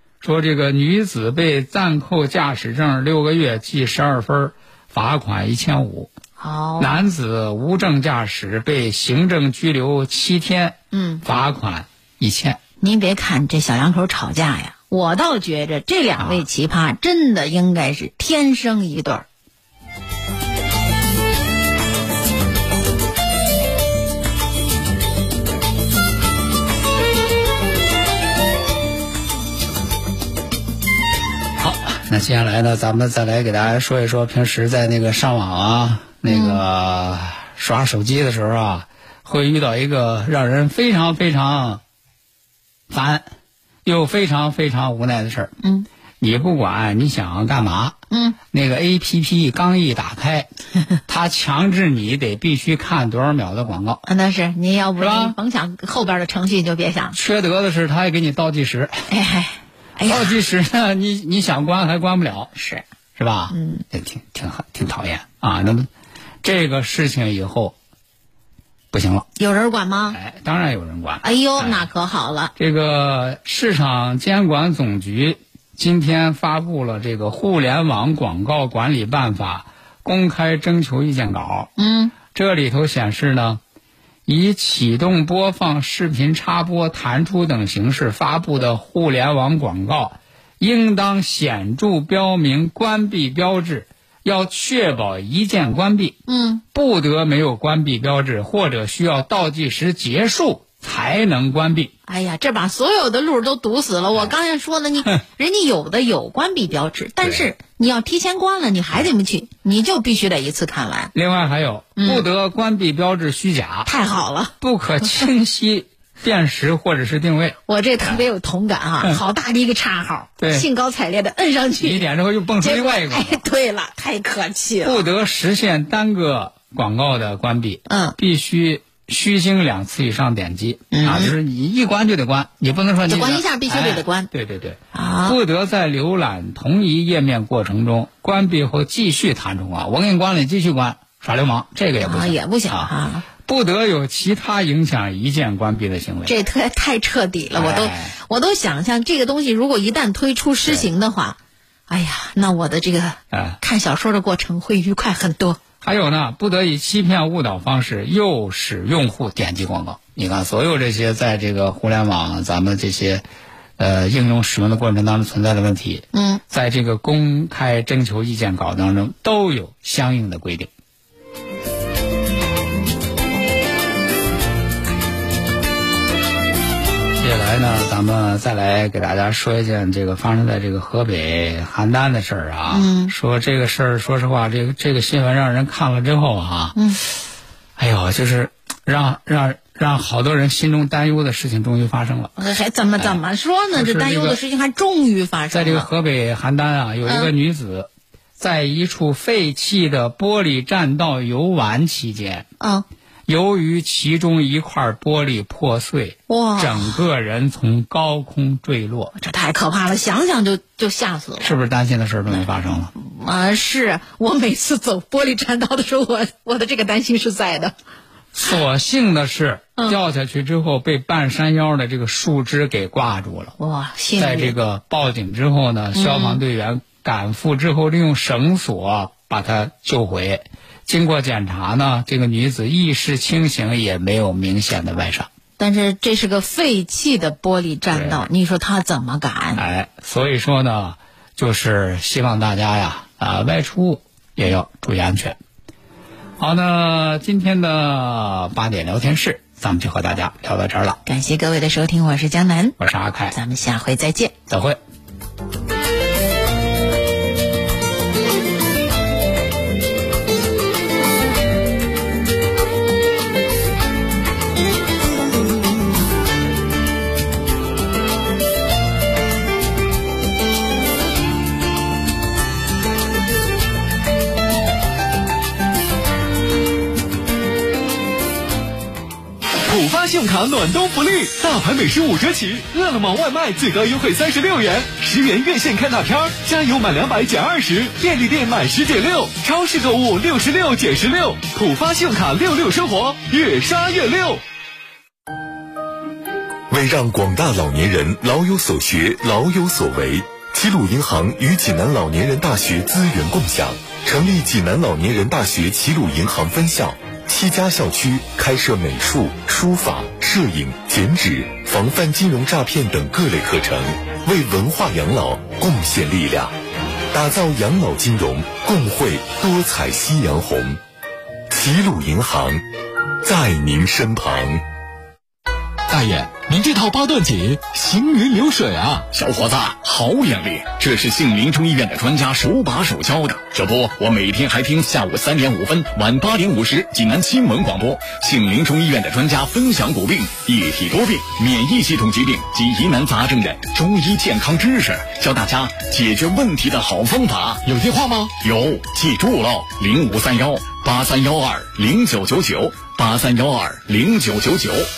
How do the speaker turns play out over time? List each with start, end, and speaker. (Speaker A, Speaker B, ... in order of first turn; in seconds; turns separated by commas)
Speaker A: 0.2-6.1, Speaker B: 6.4-7.0, Speaker A: 6.8-12.6, Speaker B: 10.9-11.2, Speaker B: 12.8-19.2, Speaker A: 16.2-16.4, Speaker A: 31.6-41.8, Speaker B: 36.3-36.6, Speaker A: 42.9-43.3, Speaker A: 43.8-45.5, Speaker B: 45.6-45.9, Speaker A: 46.2-48.0, Speaker B: 48.1-48.4, Speaker A: 48.5-50.5, Speaker A: 51.1-54.0, Speaker B: 54.0-57.2, Speaker A: 55.0-55.4, Speaker A: 57.1-59.0, Speaker B: 59.1-60.4, Speaker A: 60.0-62.5, Speaker B: 62.5-62.8, Speaker A: 63.1-65.9, Speaker B: 63.5-63.8, Speaker A: 66.4-67.8, Speaker A: 68.9-69.3, Speaker B: 69.3-70.2, Speaker A: 70.1-71.9, Speaker B: 71.2-72.5, Speaker A: 72.5-81.7, Speaker B: 81.8-82.1, Speaker A: 82.3-83.6, Speaker A: 84.3-96.2, Speaker B: 96.3-96.6, Speaker A: 96.7-101.9, Speaker B: 102.0-111.1, Speaker A: 107.2-107.5, Speaker A: 111.1-113.9, Speaker B: 112.0-112.2, Speaker B: 113.8-114.5, Speaker A: 114.6-118.2, Speaker B: 117.7-122.0, Speaker A: 120.4-120.7, Speaker A: 121.8-123.4, Speaker B: 122.6-125.0, Speaker A: 124.8-142.9, Speaker B: 127.9-128.2, Speaker B: 130.9-131.3, Speaker B: 133.0-134.3, Speaker B: 134.9-135.4, Speaker B: 142.0-143.2, Speaker A: 143.4-146.3, Speaker B: 146.2-155.6, Speaker A: 147.6-148.2, Speaker A: 153.3-153.6, Speaker A: 155.8-163.2, Speaker A: 163.8-170.7, Speaker B: 166.1-166.4, Speaker A: 177.2-186.8, Speaker B: 182.7-183.1, Speaker B: 186.7-187.0, Speaker A: 187.8-192.3, Speaker B: 192.4-195.9, Speaker A: 193.7-194.4, Speaker A: 195.5-202.5, Speaker B: 197.1-197.3, Speaker B: 202.6-202.8, Speaker A: 203.3-209.1, Speaker B: 206.3-207.0, Speaker B: 209.2-211.5, Speaker A: 211.4-212.9, Speaker B: 212.9-217.7, Speaker A: 218.3-223.5, Speaker B: 223.6-224.6, Speaker A: 224.2-235.3, Speaker B: 225.9-226.4, Speaker B: 235.6-239.6, Speaker A: 237.9-238.2, Speaker A: 239.5-245.4, Speaker A: 246.4-251.0, Speaker B: 251.1-252.8, Speaker A: 252.8-253.3, Speaker B: 253.3-254.3, Speaker A: 254.5-254.8, Speaker C: 279.6-294.4, Speaker D: 296.7-316.5, Speaker D: 317.1-320.8, Speaker D: 321.5-322.6, Speaker D: 323.2-324.6, Speaker C: 325.9-329.1, Speaker E: 329.1-354.9